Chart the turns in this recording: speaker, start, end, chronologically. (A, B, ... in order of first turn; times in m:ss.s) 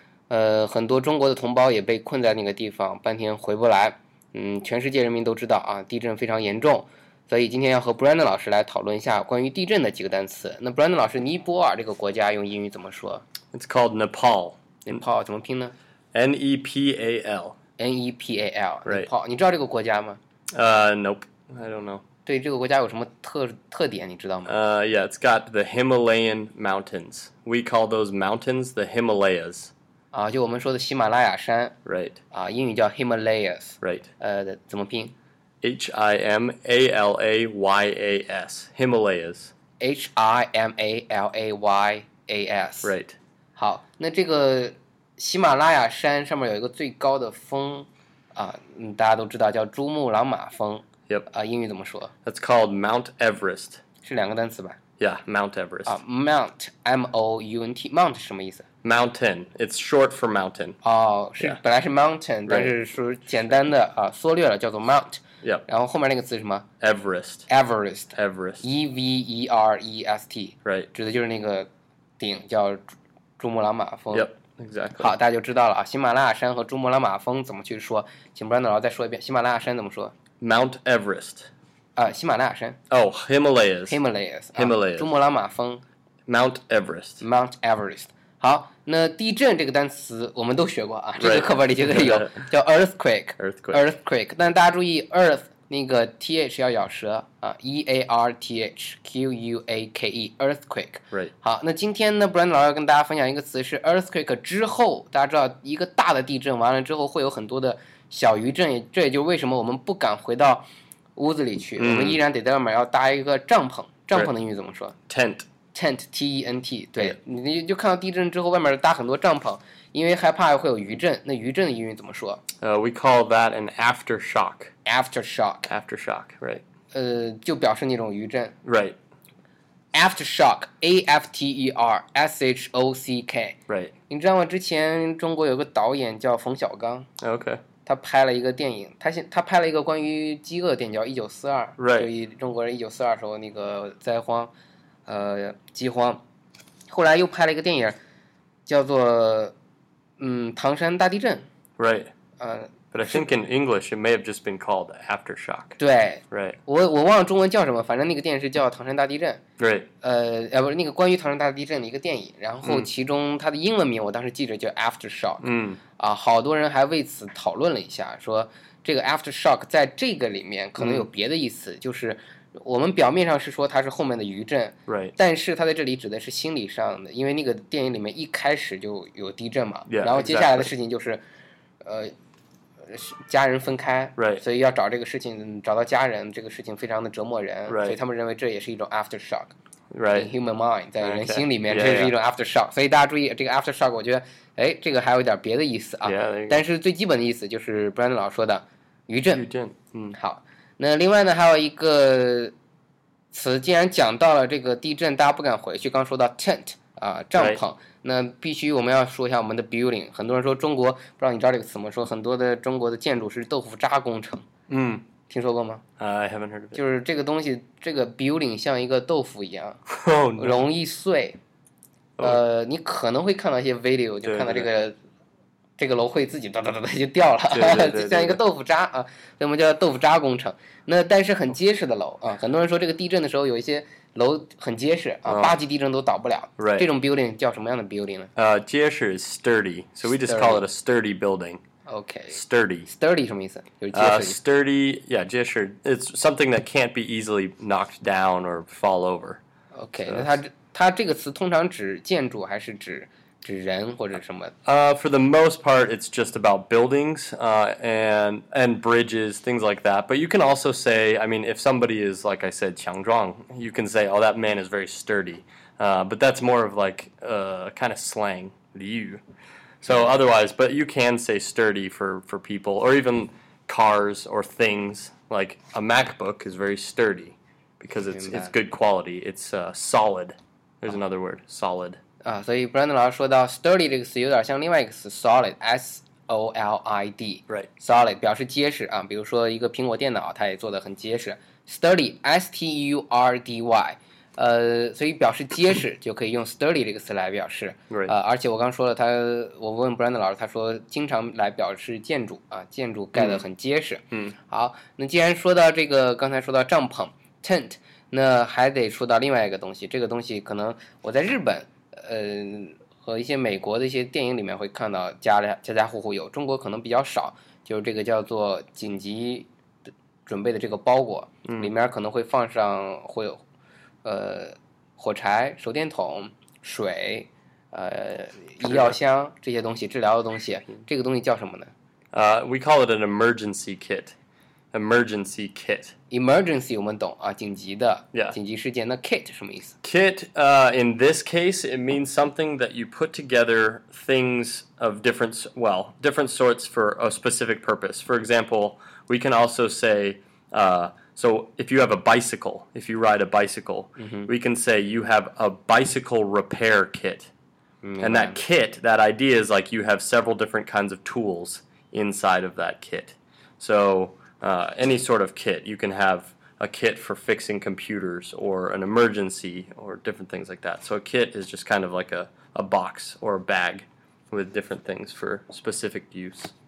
0:00.3-0:13.2 A
0:13.5-0:15.0 B
0:14.9-0:15.8 A
0:16.1-0:17.6 B
0:17.8-0:20.2 A
0:20.5-0:22.0 B
0:22.3-0:24.6 A
0:24.5-0:29.7 B
0:30.1-0:31.8 A
0:31.8-0:32.2 B
0:32.3-0:35.2 A
0:33.8-0:34.1 B
0:35.6-0:39.5 B
0:39.8-0:42.9 A
0:42.8-0:43.2 B
0:43.6-0:52.1 A
0:52.2-0:53.8 B
0:54.0-0:54.8 A
0:55.0-0:56.0 B
0:55.9-0:58.6 A
0:58.8-1:00.8 B
1:00.8-1:06.7 A
1:02.5-1:02.8 B
1:06.8-1:07.5 B
1:07.5-1:11.7 A
1:08.2-1:08.6 B
1:12.2-1:12.8 A
1:13.4-1:14.3 A
1:14.1-1:15.1 B
1:15.0-1:20.1 A
1:20.4-1:21.5 B
1:22.0-1:22.8 A
1:22.9-1:24.0 B
1:23.9-1:25.8 A
1:24.6-1:25.1 B
1:26.3-1:27.2 B
1:27.2-1:50.6 A
1:31.2-1:32.5 B
1:33.4-1:33.8 B
1:51.2-1:55.0 A
1:51.8-1:52.2 B
1:55.1-1:55.5 B
1:55.7-2:02.4 A
2:02.6-2:04.7 B
2:04.9-2:05.7 A
2:05.7-2:06.6 B
2:06.9-2:08.6 A
2:08.6-2:09.0 B
2:09.9-2:13.6 A
2:13.7-2:13.9 B
2:14.1-2:17.1 A
2:17.2-2:17.6 B
2:17.8-2:24.5 A
2:21.8-2:22.1 B
2:25.1-2:26.2 A
2:26.9-2:28.0 A
2:28.7-2:29.5 A
2:30.2-2:31.5 A
2:31.8-2:32.1 B
2:32.4-2:33.3 A
2:32.9-2:35.8 B
2:35.8-2:39.4 A
2:36.3-2:36.6 B
2:39.6-2:39.9 B
2:40.0-2:45.5 A
2:42.6-2:42.9 B
2:45.4-2:45.8 B
2:46.0-3:01.2 A
2:50.8-2:51.1 B
2:54.9-2:55.2 B
2:59.9-3:00.7 B
3:01.8-3:02.1 A
3:02.9-3:09.5 A
3:04.2-3:04.4 B
3:07.7-3:08.0 B
3:09.9-3:10.3 B
3:10.1-3:19.4 A
3:11.0-3:12.1 B
3:16.0-3:16.6 B
3:19.3-3:20.2 B
3:20.1-3:22.5 A
3:23.3-3:34.5 A
3:34.7-3:35.0 B
3:35.3-3:35.8 A
3:36.0-3:36.8 B
3:36.8-3:39.8 A
3:39.9-3:40.6 B
3:40.4-3:41.4 A
3:42.2-3:45.0 A
3:44.2-3:44.7 B
3:45.8-3:58.3 A
3:47.5-3:48.4 B
3:55.3-3:55.6 B
3:56.6-3:56.9 B
3:58.4-4:01.6 B
4:00.1-4:00.6 A
4:01.9-4:04.4 A
4:02.3-4:02.9 B
4:03.9-4:09.4 B
4:09.8-4:14.5 A
4:10.1-4:10.3 B
4:14.6-4:29.2 B
4:29.8-4:42.0 B
4:38.1-4:38.5 A
4:42.2-5:19.5 A
5:03.2-5:03.4 B
5:20.3-5:23.4 A
5:24.0-5:31.7 A
5:28.7-5:28.9 B
5:32.1-5:34.2 B
5:34.7-5:35.9 B
5:36.1-5:39.8 A
5:39.8-5:57.3 B
5:54.0-5:54.3 A
5:57.8-5:58.4 A
5:58.0-6:16.5 B